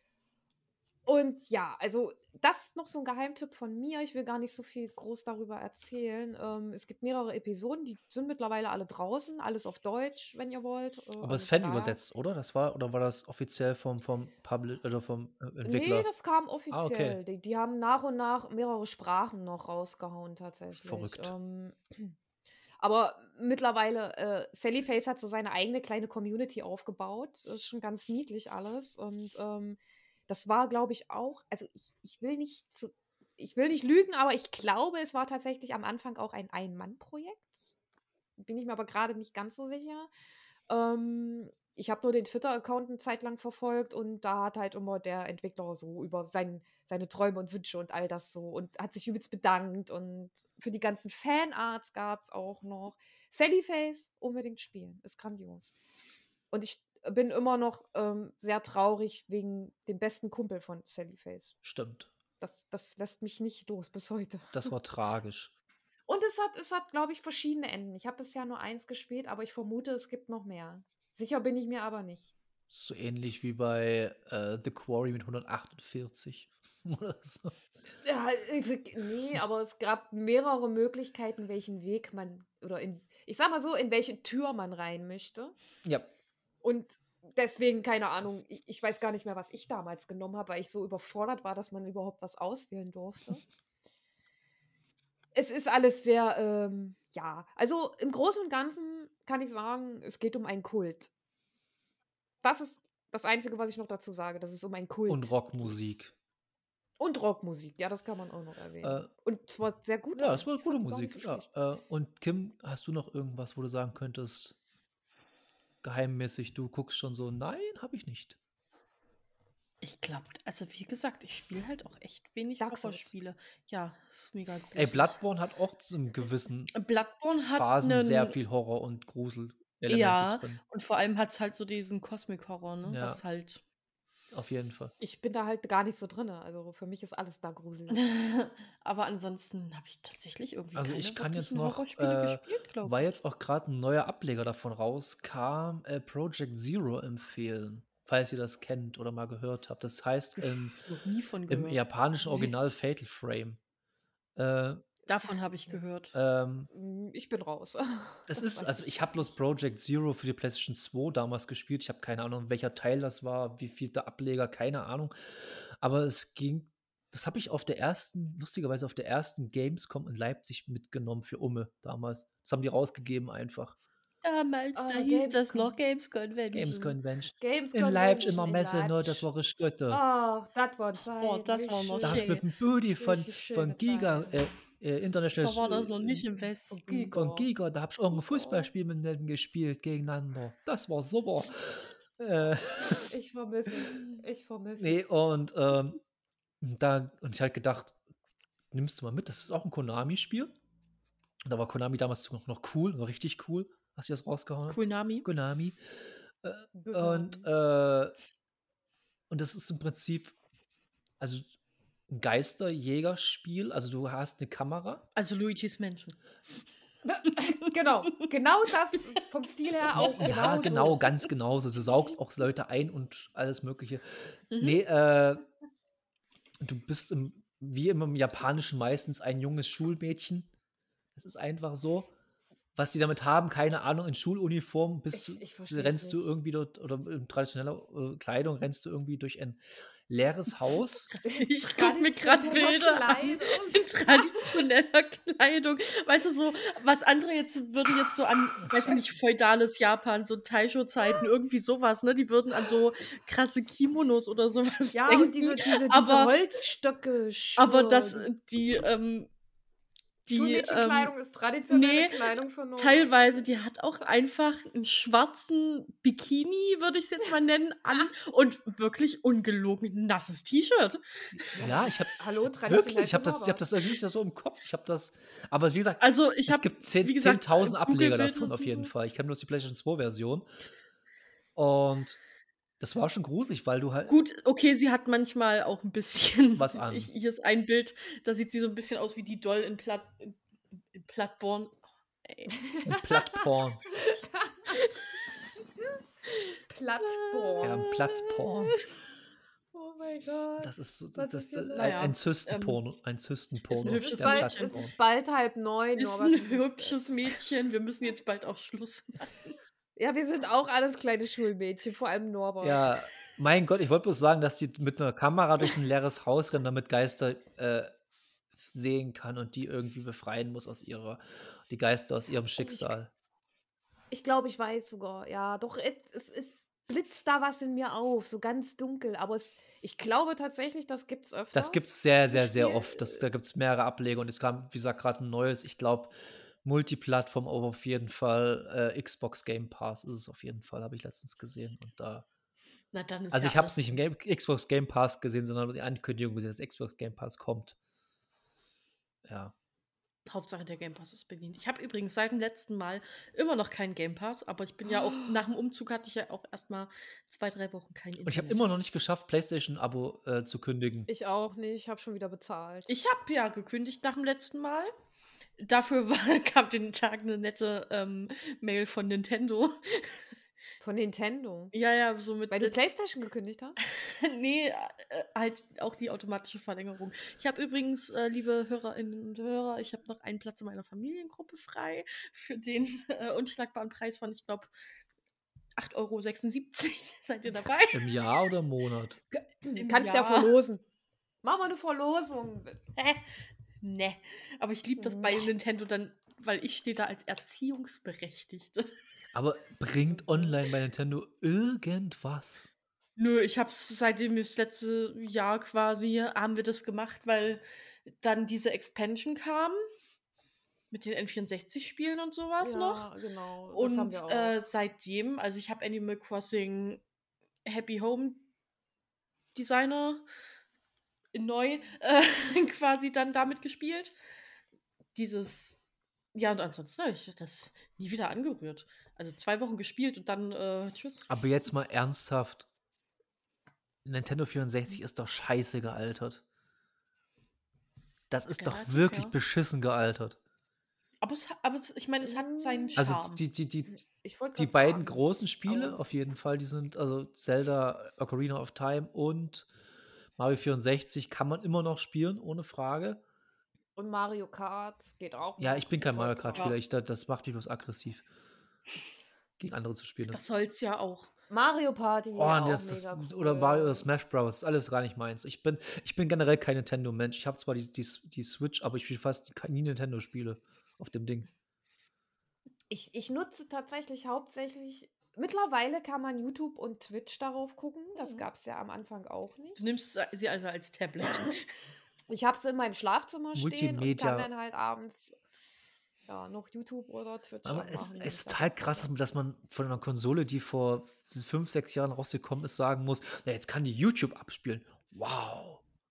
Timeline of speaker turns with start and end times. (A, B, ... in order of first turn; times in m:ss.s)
0:01.0-0:12.0 A
0:11.2-0:16.1 B
0:15.6-0:22.1 A
0:16.7-0:17.2 B
0:20.8-0:21.3 B
0:22.8-0:37.7 A
0:38.4-0:40.1 A
0:40.7-0:55.7 A
0:56.5-1:01.5 A
1:01.6-1:02.1 B
1:02.4-1:04.7 A
1:04.5-1:05.5 B
1:06.1-1:12.3 A
1:12.7-1:17.6 B
1:18.0-1:25.5 A
1:26.6-1:33.4 A
1:35.3-1:41.1 A
1:42.4-1:46.0 A
1:45.1-1:46.1 B
1:47.0-1:51.4 A
1:48.8-1:49.1 B
1:50.2-1:54.6 B
1:55.8-1:58.4 B
1:59.8-2:05.2 C
2:02.6-2:03.1 A
2:04.7-2:06.7 B
2:06.7-2:08.4 C
2:07.5-2:10.6 B
2:09.9-2:13.6 C
2:12.8-2:13.2 B
2:14.3-2:14.9 B
2:15.0-2:18.0 A
2:17.9-2:23.1 C
2:20.7-2:30.8 B
2:30.4-2:32.5 C
2:31.5-2:33.6 B
2:34.4-2:34.9 B
2:35.1-2:36.1 C
2:35.1-2:35.8 A
2:36.1-2:36.7 B
2:36.7-2:38.9 A
2:38.3-2:45.1 B
2:45.8-2:53.8 B
2:54.2-2:57.0 C
2:54.7-2:55.8 A
2:56.5-3:00.0 B
2:57.4-2:59.3 A
2:59.9-3:02.4 A
3:01.2-3:02.4 C
3:02.0-3:06.2 B
3:03.0-3:04.5 A
3:05.4-3:07.1 C
3:06.7-3:07.5 A
3:07.1-3:13.1 B
3:08.1-3:08.7 A
3:12.9-3:15.1 A
3:14.8-3:16.0 B
3:16.6-3:18.0 B
3:18.7-3:20.5 B
3:21.4-3:25.8 B
3:24.7-3:25.3 C
3:26.4-3:28.1 B
3:26.8-3:27.5 A
3:29.3-3:30.4 B
3:31.2-3:31.5 B
3:32.1-3:35.0 B
3:35.1-3:36.2 C
3:37.0-3:41.1 A
3:37.2-3:38.3 C
3:39.9-3:41.1 C
3:40.2-3:45.4 B
3:44.5-3:44.8 C
3:46.6-3:50.5 B
3:51.1-3:52.1 B
3:52.7-4:01.1 B
3:55.1-3:56.2 A
4:01.1-4:16.3 C
4:01.3-4:04.4 A
4:14.9-4:18.3 A
4:17.6-4:19.3 C
4:20.3-4:21.1 C
4:20.3-4:23.4 A
4:21.7-4:31.9 C
4:31.4-4:40.5 B
4:31.6-4:33.7 A
4:36.0-4:38.9 C
4:41.6-4:42.2 B
4:42.8-4:44.2 B
4:44.1-4:50.4 C
4:46.6-4:47.1 B
4:50.9-4:52.5 C
4:52.5-4:55.0 A
4:52.8-4:53.8 B
4:55.8-4:58.0 A
4:57.0-4:58.4 C
4:57.6-4:58.8 B
4:59.7-5:02.1 A
5:00.6-5:04.9 B
5:01.8-5:02.8 C
5:03.7-5:04.9 C
5:03.8-5:07.3 A
5:06.0-5:09.4 C
5:10.0-5:12.9 A
5:12.6-5:17.9 B
5:18.6-5:23.1 B
5:22.6-5:22.9 A
5:24.1-5:33.2 A
5:31.5-5:36.1 B
5:36.6-5:42.2 B
5:42.9-5:44.0 C
5:43.3-5:47.8 B
5:49.2-5:49.5 B
5:50.2-5:58.7 C
5:58.2-6:01.1 B
6:01.1-6:02.9 A
6:02.9-6:04.9 C
6:05.6-6:10.3 C
6:10.8-6:11.7 A
6:11.7-6:12.8 C
6:12.5-6:13.8 A
6:13.8-6:24.7 C
6:25.8-6:28.2 C
6:27.9-6:29.2 B
6:29.3-6:30.8 A
6:29.7-6:30.6 C
6:31.4-6:32.8 A
6:33.0-6:39.0 C
6:35.0-6:35.5 A
6:39.3-6:42.7 B
6:40.2-6:40.5 A
6:43.2-6:49.8 C
6:50.9-6:53.1 C
6:52.6-6:54.5 A
6:53.7-6:57.0 C
6:57.6-6:58.4 C
6:59.5-7:00.2 C
7:01.3-7:04.1 C
7:05.1-7:05.8 C
7:06.3-7:11.2 C
7:11.3-7:12.7 B
7:14.0-7:16.4 B
7:18.3-7:20.4 B
7:18.6-7:19.3 C
7:21.2-7:23.4 C
7:22.2-7:23.0 A
7:23.0-7:24.0 B
7:23.9-7:26.0 A
7:24.6-7:29.7 B
7:30.4-7:33.2 B
7:34.0-7:36.7 A
7:35.6-7:38.2 B
7:39.6-7:40.4 B
7:40.3-7:41.3 C
7:41.5-7:44.1 A
7:42.4-7:51.5 B
7:52.9-7:59.8 A
7:58.2-7:58.5 C
7:59.8-8:01.7 C
8:02.3-8:05.4 A
8:03.5-8:04.5 B
8:06.3-8:09.1 A
8:07.6-8:15.8 B